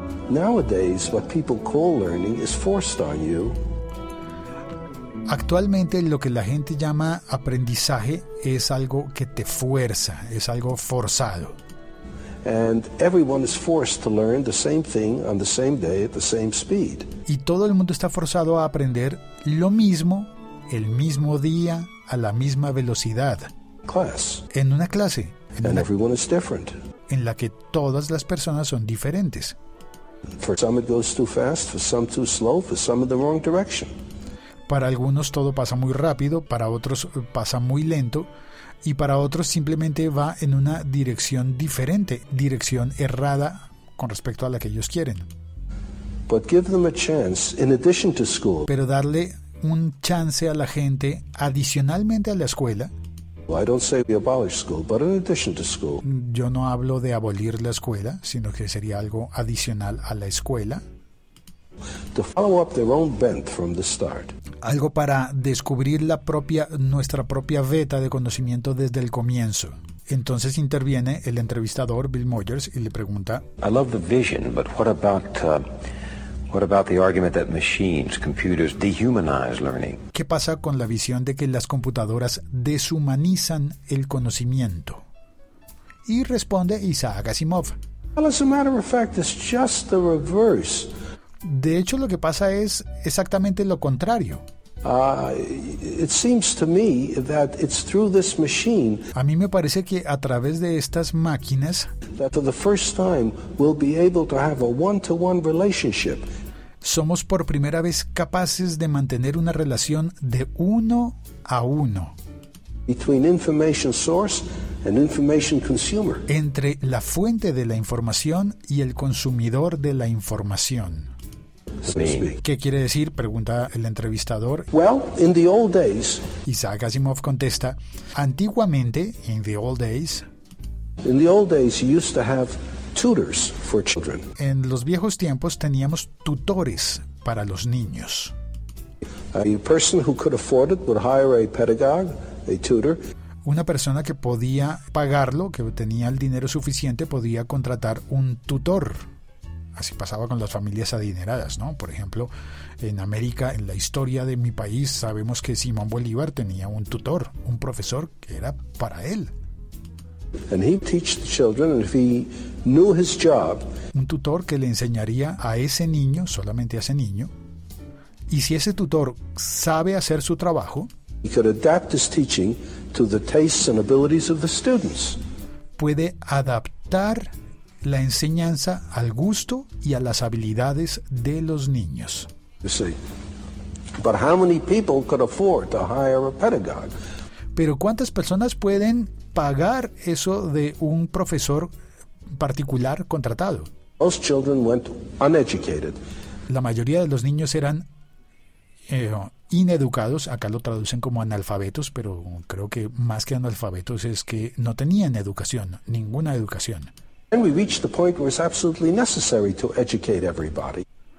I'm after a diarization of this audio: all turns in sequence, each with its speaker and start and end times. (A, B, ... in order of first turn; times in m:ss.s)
0:00.3-0:03.6 A
0:05.3-0:11.6 B
0:12.4-0:17.1 A
0:17.3-0:23.5 B
0:23.9-0:24.5 A
0:24.5-0:25.8 B
0:25.6-0:26.7 A
0:27.1-0:29.6 B
0:30.4-0:33.9 A
0:34.7-0:38.3 B
0:38.8-0:45.3 B
0:46.3-0:48.7 A
0:48.7-0:52.9 B
0:53.5-0:56.0 A
0:56.0-1:00.8 B
1:02.1-1:04.3 A
1:04.6-1:13.4 B
1:13.6-1:15.6 C
1:16.5-1:20.0 C
1:20.1-1:25.0 B
1:26.1-1:27.8 B
1:28.2-1:30.9 A
1:31.4-1:34.4 B
1:34.8-1:39.1 A
1:39.1-1:41.9 B
1:42.2-1:46.3 A
1:46.8-1:52.2 B
1:52.9-1:56.3 A
1:56.3-2:01.1 B
2:01.9-2:02.4 A
2:02.4-2:04.7 B
2:04.7-2:06.2 A
2:06.4-2:10.3 B
2:11.0-2:14.3 A
2:14.4-2:18.3 B
2:19.3-2:23.0 A
2:23.4-2:29.0 B
2:29.8-2:39.3 B
2:40.5-2:43.7 A
2:43.9-2:47.3 B
2:48.3-2:50.9 B
2:51.2-2:55.2 A
2:55.8-2:57.3 B
2:57.8-3:02.3 B
3:02.6-3:03.0 A
3:04.0-3:06.9 A
3:07.6-3:11.7 B
3:12.3-3:13.7 B
3:14.0-3:16.0 A
3:16.5-3:17.8 B
3:18.9-3:26.9 B
3:27.3-3:30.8 A